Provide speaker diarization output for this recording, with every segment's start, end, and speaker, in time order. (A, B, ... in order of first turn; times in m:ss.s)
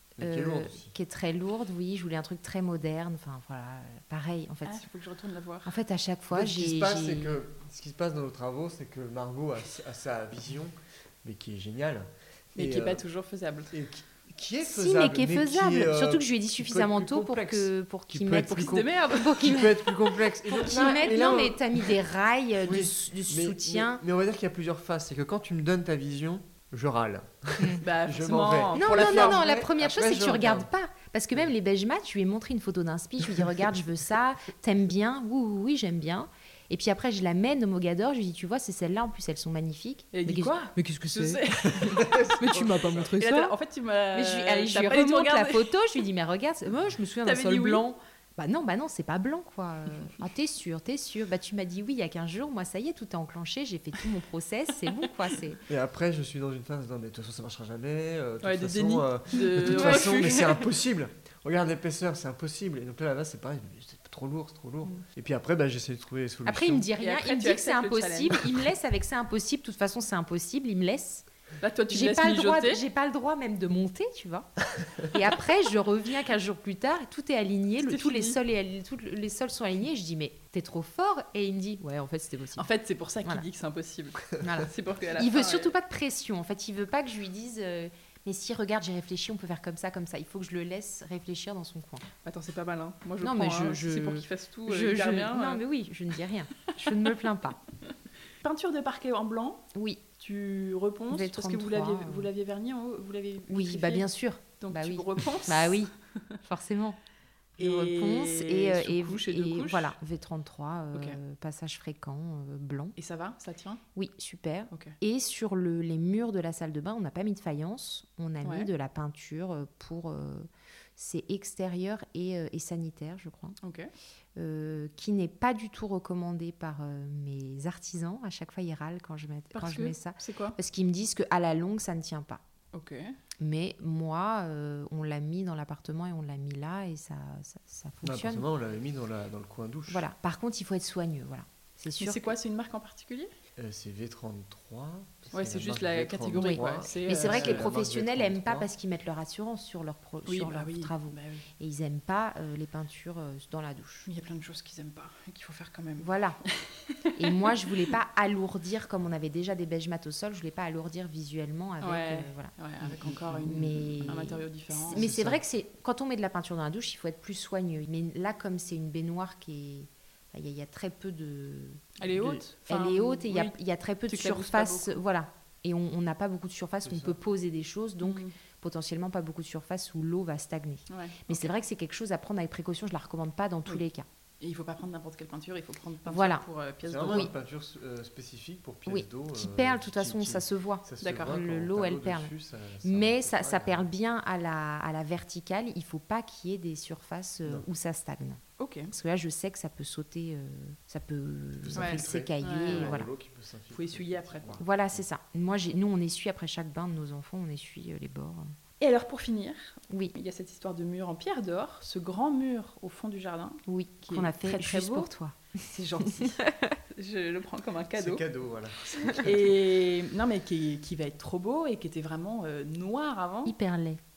0:00.2-0:01.0 A
0:00.2-0:04.9 B
0:04.6-0:05.8 C
0:05.6-0:07.4 B
0:06.3-0:13.0 A
0:12.6-0:13.7 C
0:13.7-0:21.7 A
0:14.6-0:24.0 B
0:18.4-0:19.5 C
0:20.6-0:21.5 C
0:22.6-0:30.7 A
0:27.8-0:29.4 C
0:28.8-0:43.5 B
0:40.1-0:45.7 C
0:41.6-0:43.2 A
0:44.1-0:55.6 B
0:47.2-0:47.8 C
0:55.7-1:06.9 A
0:58.4-1:00.7 C
0:59.7-1:00.1 B
1:06.5-1:11.3 B
1:07.0-1:08.5 C
1:11.6-1:12.8 C
1:11.9-1:14.5 B
1:15.0-1:22.7 B
1:17.8-1:18.4 C
1:22.6-1:25.7 C
1:24.4-1:32.1 B
1:32.2-1:35.6 C
1:33.2-1:37.6 B
1:36.7-1:37.1 C
1:38.4-1:39.6 C
1:39.7-1:40.0 B
1:40.2-1:44.1 C
1:41.1-1:42.3 B
1:43.5-1:47.0 B
1:44.6-1:46.4 C
1:47.6-1:49.9 C
1:47.6-1:53.0 B
1:53.0-1:53.8 C
1:54.0-2:03.6 B
1:54.7-1:55.0 C
1:58.4-1:58.7 C
2:03.6-2:03.9 C
2:04.4-2:12.4 B
2:09.5-2:10.6 C
2:12.7-2:13.1 C
2:13.4-2:18.4 B
2:18.0-2:20.1 A
2:19.9-2:22.3 B
2:22.0-2:23.3 C
2:23.6-2:28.7 A
2:25.3-2:27.7 C
2:26.4-2:34.1 B
2:30.3-2:31.4 C
2:34.1-2:37.7 C
2:36.0-2:36.4 B
2:37.2-2:42.5 B
2:41.8-2:45.1 C
2:42.8-2:43.5 A
2:43.4-2:51.9 B
2:44.0-2:44.3 A
2:44.9-2:45.4 A
2:52.0-2:53.6 C
2:52.1-2:52.4 A
2:52.7-3:04.1 B
2:54.1-2:55.0 C
2:56.8-2:57.2 A
2:58.0-2:58.3 C
3:00.9-3:01.5 C
3:04.4-3:07.3 C
3:06.1-3:06.4 B
3:06.8-3:13.9 A
3:08.9-3:12.3 B
3:11.0-3:11.4 C
3:12.8-3:23.1 B
3:18.6-3:18.9 C
3:21.6-3:25.0 A
3:21.8-3:23.0 C
3:23.7-3:24.6 C
3:24.6-3:28.5 B
3:28.8-3:35.1 C
3:29.9-3:30.2 B
3:33.7-3:36.8 B
3:35.7-3:38.2 C
3:38.0-3:39.4 A
3:38.9-3:43.6 C
3:43.5-3:44.0 B